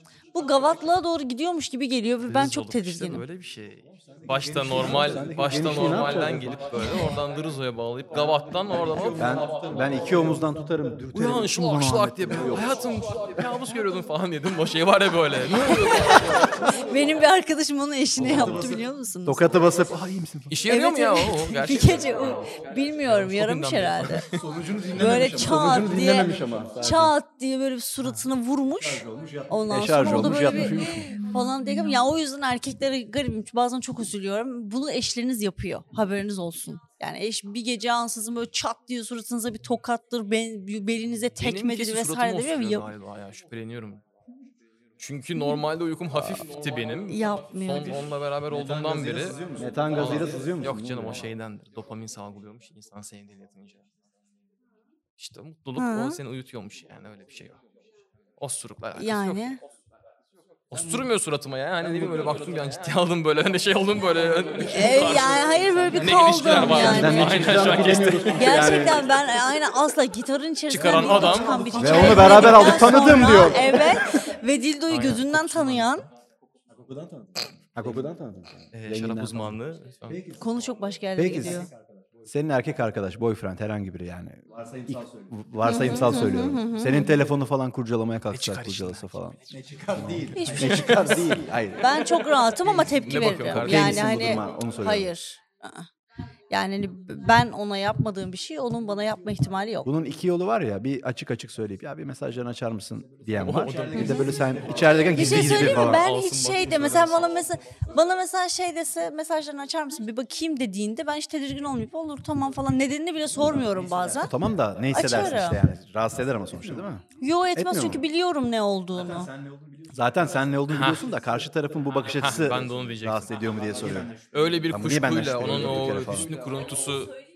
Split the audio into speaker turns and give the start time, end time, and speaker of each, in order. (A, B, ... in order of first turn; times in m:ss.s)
0:00.3-0:03.2 A
0:02.2-0:09.4 B
0:03.9-0:07.2 C
0:04.7-0:06.7 D
0:08.2-0:11.1 C
0:09.1-0:12.8 D
0:11.1-0:16.6 B
0:12.3-0:12.8 C
0:15.7-0:19.5 A
0:18.2-0:18.9 C
0:18.2-0:18.6 D
0:18.3-0:18.6 B
0:19.2-0:20.6 D
0:20.5-0:24.4 B
0:20.7-0:24.3 A
0:24.3-0:27.1 C
0:25.0-0:42.9 A
0:25.1-0:27.1 D
0:28.6-0:31.0 C
0:29.7-0:31.1 D
0:41.4-0:44.0 B
0:45.0-0:53.8 B
0:46.2-0:46.4 D
0:47.1-0:48.0 A
0:48.5-0:51.2 C
0:49.6-0:51.2 D
0:55.2-0:57.6 B
0:55.8-0:56.2 A
0:58.4-0:59.5 B
0:58.9-0:59.6 A
1:00.7-1:08.7 B
1:04.7-1:07.3 A
1:06.6-1:09.1 D
1:06.7-1:08.9 C
1:08.3-1:16.1 A
1:10.7-1:12.6 B
1:10.7-1:14.0 C
1:11.7-1:13.9 D
1:14.9-1:16.0 B
1:16.7-1:18.6 C
1:17.8-1:19.5 D
1:18.7-1:20.2 B
1:20.0-1:22.3 C
1:20.4-1:21.7 A
1:21.2-1:21.6 D
1:22.3-1:32.0 D
1:24.5-1:26.5 C
1:25.6-1:27.1 A
1:28.3-1:29.2 B
1:29.5-1:33.0 C
1:30.3-1:35.9 A
1:30.6-1:31.1 B
1:32.9-1:34.1 B
1:33.5-1:35.1 D
1:33.7-1:34.8 C
1:36.5-1:39.9 A
1:39.8-1:46.1 D
1:43.1-1:45.9 C
1:43.4-1:44.3 B
1:44.0-1:44.2 A
1:45.1-1:54.3 A
1:45.1-1:47.4 B
1:53.3-1:56.9 C
1:54.2-1:57.0 D
1:54.9-1:55.6 A
1:57.2-1:59.3 A
1:57.5-1:58.0 D
1:58.9-2:06.6 C
1:59.9-2:04.1 D
2:00.7-2:01.1 B
2:02.1-2:07.1 B
2:04.7-2:06.3 D